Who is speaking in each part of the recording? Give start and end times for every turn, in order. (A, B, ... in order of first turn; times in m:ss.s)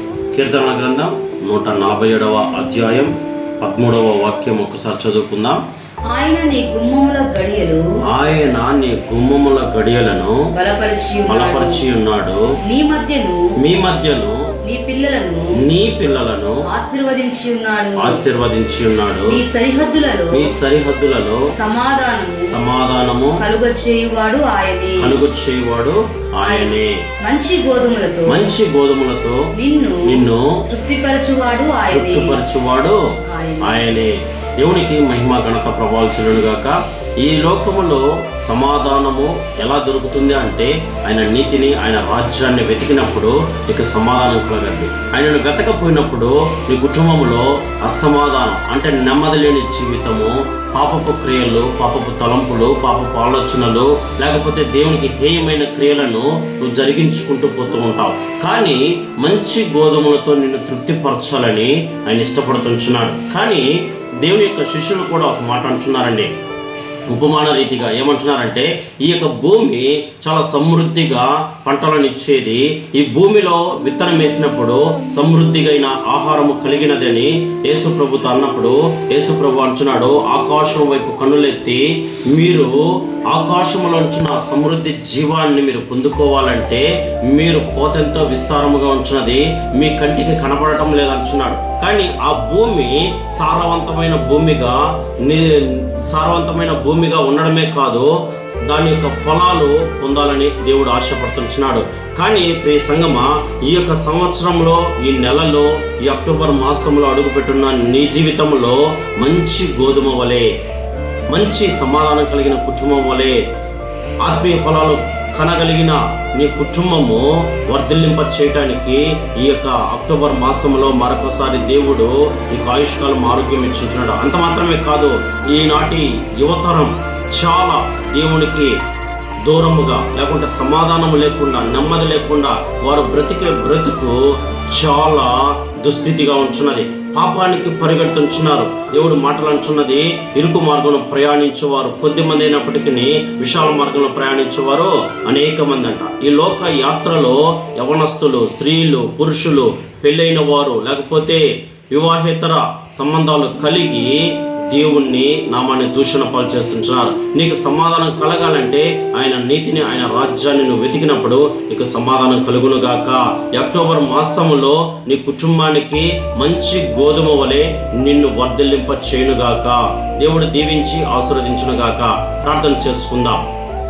0:00.3-0:05.6 A
0:06.1-0:07.8 B
0:08.0-0:10.5 A
0:10.5-0:11.8 B
0:11.3-0:12.5 A
0:12.6-0:13.5 B
0:13.6-0:14.4 A
0:14.6-0:15.5 B
0:15.6-0:16.6 A
0:16.6-0:18.2 B
0:18.0-0:19.4 A
0:19.3-0:20.5 B
0:20.3-0:21.5 A
0:21.5-0:22.6 B
0:22.5-0:23.4 A
0:23.4-0:25.2 B
0:25.0-0:27.0 A
0:26.4-0:28.6 B
0:28.3-0:29.5 A
0:29.5-0:32.4 B
0:30.0-0:30.6 A
0:31.9-0:33.0 A
0:33.3-0:33.9 B
0:33.6-1:06.3 A
1:07.1-1:38.1 A
1:38.6-1:50.5 A
1:51.3-1:53.4 A
1:54.2-2:08.8 A
2:09.4-2:53.4 A